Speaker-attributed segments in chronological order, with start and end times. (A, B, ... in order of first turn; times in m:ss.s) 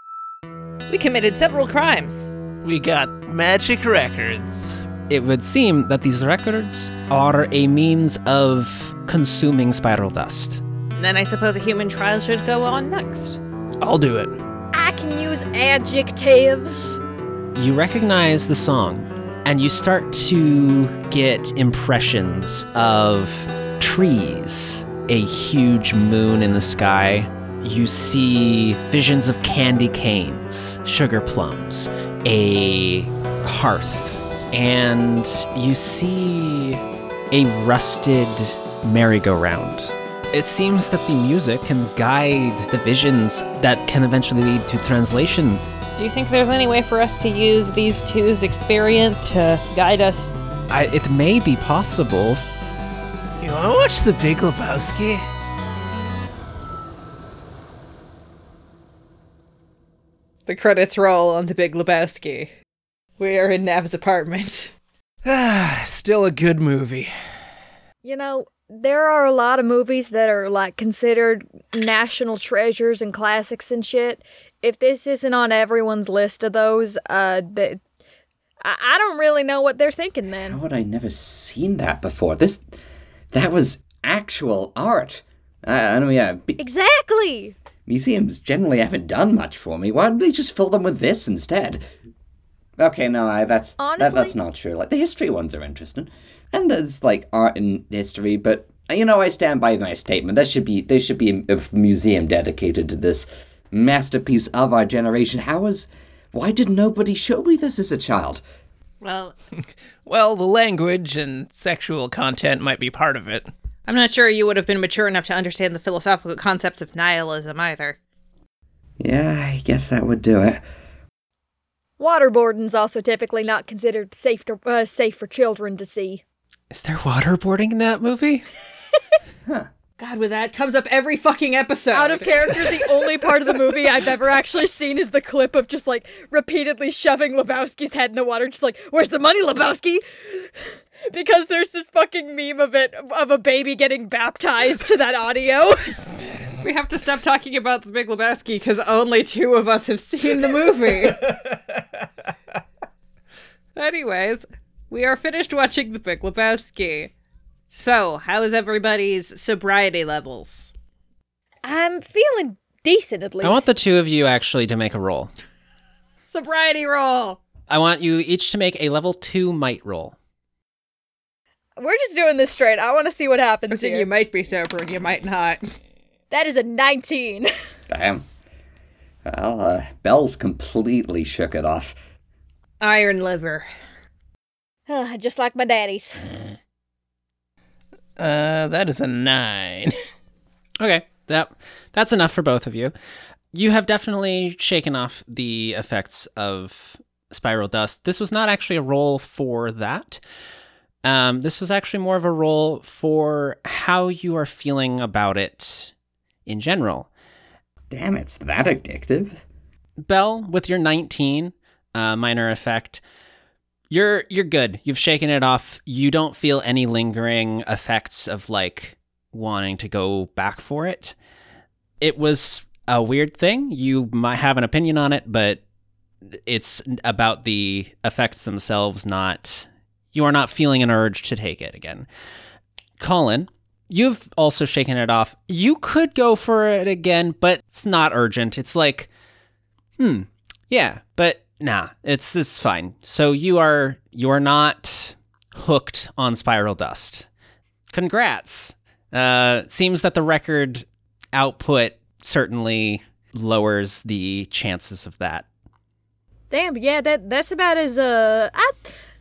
0:00.9-0:02.4 A
0:02.6-0:04.9 B
0:05.1-0:10.6 C
0:11.0-0:13.4 A
0:13.8-0:14.4 B
0:14.7-0:17.0 D
0:17.6-0:45.6 C
0:46.0-0:50.3 A
0:50.7-0:52.4 C
0:53.4-0:55.2 B
1:00.5-1:02.5 A
1:03.2-1:04.7 A
1:05.2-1:07.1 B
1:08.0-1:17.8 D
1:18.6-1:20.6 D
1:20.4-1:22.7 E
1:23.3-1:26.6 E
1:26.6-1:27.6 D
1:27.9-1:31.8 E
1:32.8-1:48.4 E
1:33.8-1:34.3 D
1:49.0-1:49.4 A
1:50.0-1:53.5 B
1:53.9-1:58.0 A
1:59.0-2:00.6 E
2:02.0-2:06.2 D
2:06.7-2:08.4 C
2:10.0-2:12.9 A
2:11.9-2:26.0 D
2:26.6-2:31.3 A
2:31.3-2:31.8 B
2:33.8-2:37.1 A
2:37.7-2:40.7 A
2:41.6-2:43.7 D
2:43.4-2:45.3 C
2:46.3-2:47.4 A
2:47.7-2:50.2 C
2:51.8-2:54.1 D
2:53.7-2:55.6 A
2:56.3-2:57.5 D
2:57.9-2:58.2 E
2:59.2-3:02.0 E
3:02.8-3:03.7 A
3:04.9-3:06.3 D
3:08.2-3:09.9 B
3:10.8-3:12.9 C
3:13.5-3:20.2 C
3:21.0-3:25.9 C
3:26.5-3:27.1 C
3:27.9-3:29.4 E
3:30.0-3:33.0 C
3:33.9-3:41.2 C
3:42.0-3:45.6 C
3:46.3-3:52.1 C
3:53.0-3:59.1 C
4:00.0-4:07.3 C
4:07.9-4:15.5 C
4:16.5-4:18.9 D